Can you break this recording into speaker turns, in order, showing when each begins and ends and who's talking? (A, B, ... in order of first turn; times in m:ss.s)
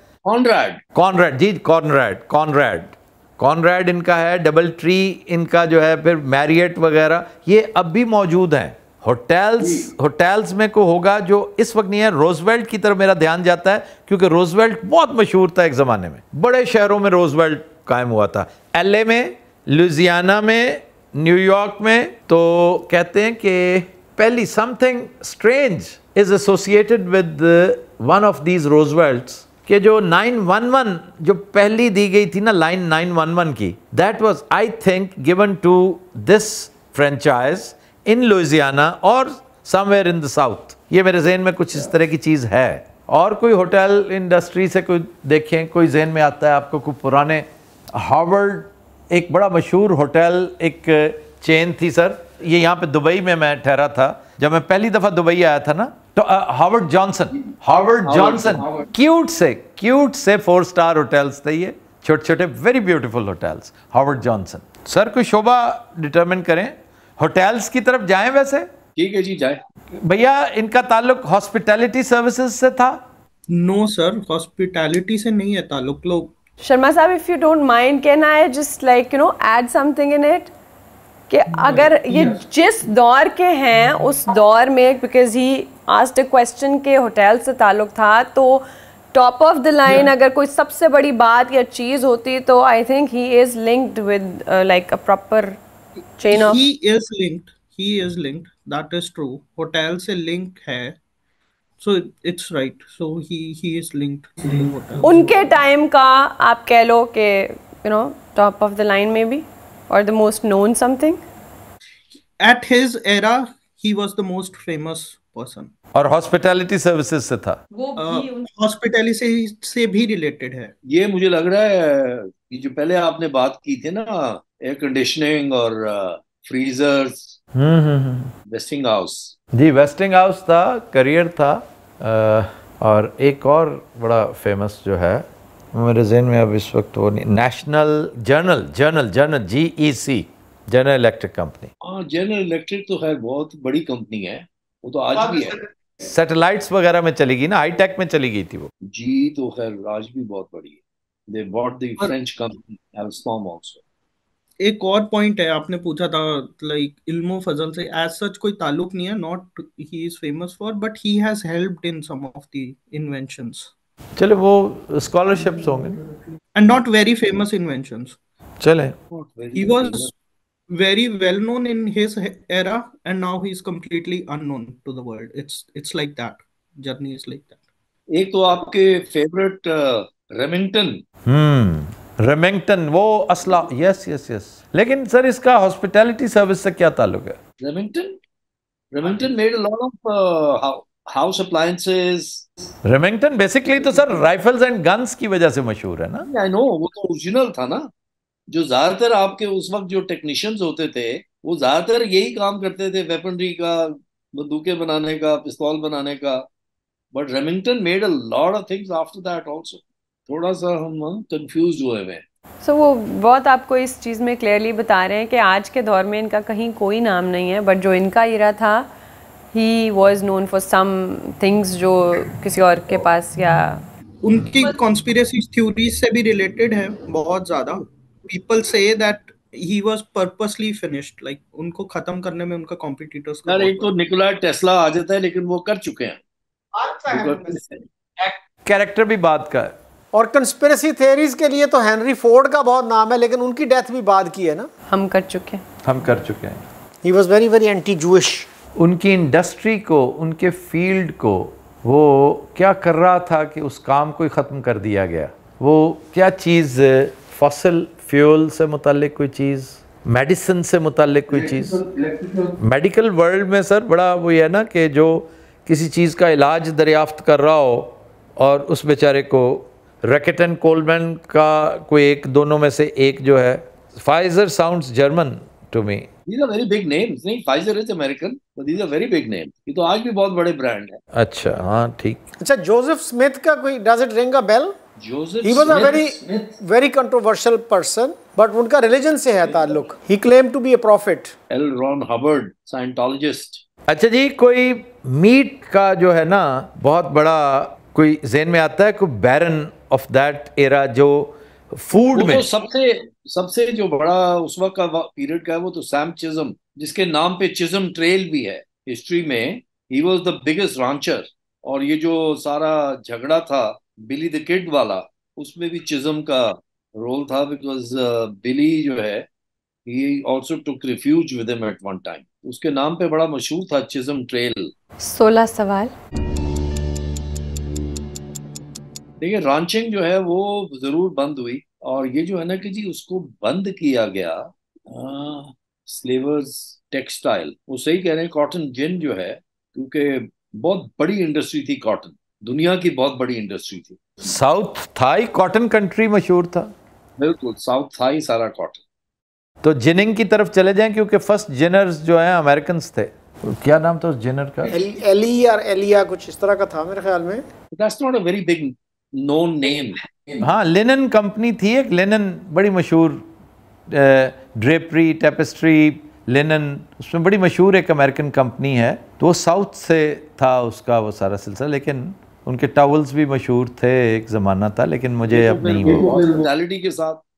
0:00.2-0:00.8 A
0:01.0-1:08.7 B
0:09.6-0:09.9 A
0:58.0-0:58.9 A
1:09.0-1:09.6 A
1:09.9-1:13.0 B
1:13.5-1:16.4 C
1:16.6-1:20.5 D
1:21.3-1:35.6 D
1:36.2-1:36.6 D
1:36.2-1:41.0 C
1:41.8-1:45.5 C
1:45.0-1:51.2 D
1:52.4-1:55.7 C
1:56.0-1:57.6 B
1:58.0-2:00.7 C
2:00.9-2:07.4 A
2:07.6-2:08.3 B
2:08.5-2:09.3 A
2:09.5-2:21.7 B
2:21.8-2:25.6 A
2:25.2-2:28.7 B
2:28.9-2:30.8 A
2:31.3-2:33.8 A
2:34.6-2:43.7 C
2:44.2-2:46.0 B
2:46.6-2:48.2 C
2:48.6-2:49.0 B
2:49.1-2:50.1 A
2:49.5-2:50.1 C
2:50.7-2:57.6 C
2:58.1-3:01.0 A
3:01.2-3:07.4 B
3:07.6-3:08.2 A
3:08.9-3:12.5 A
3:12.8-3:16.3 B
3:16.2-3:17.9 A
3:18.5-3:26.4 A
3:27.1-3:32.2 A
3:32.6-3:38.9 D
3:39.5-3:43.8 D
3:44.2-3:53.9 C
3:53.5-3:56.2 A
3:56.8-3:57.6 E
3:57.1-3:57.8 A
3:58.2-3:59.8 B
4:00.1-4:04.7 E
4:04.9-4:05.6 D
4:05.8-4:06.6 B
4:07.0-4:08.5 E
4:08.8-4:21.8 B
4:21.3-4:22.5 A
4:22.6-4:36.1 B
4:36.3-4:41.0 A
4:41.1-4:42.2 B
4:42.4-4:44.8 E
4:45.0-4:46.6 A
4:45.4-4:51.3 E
4:51.5-4:53.6 A
4:53.9-5:02.5 B
5:02.1-5:19.2 A
5:19.9-5:24.7 A
5:25.0-5:25.9 D
5:29.2-5:44.2 A
5:44.2-5:46.7 B
5:47.2-5:48.8 A
5:49.6-5:54.8 B
5:54.7-5:57.4 E
5:57.7-6:00.0 A
6:00.4-6:03.2 B
6:03.9-6:16.1 B
6:15.3-6:17.2 A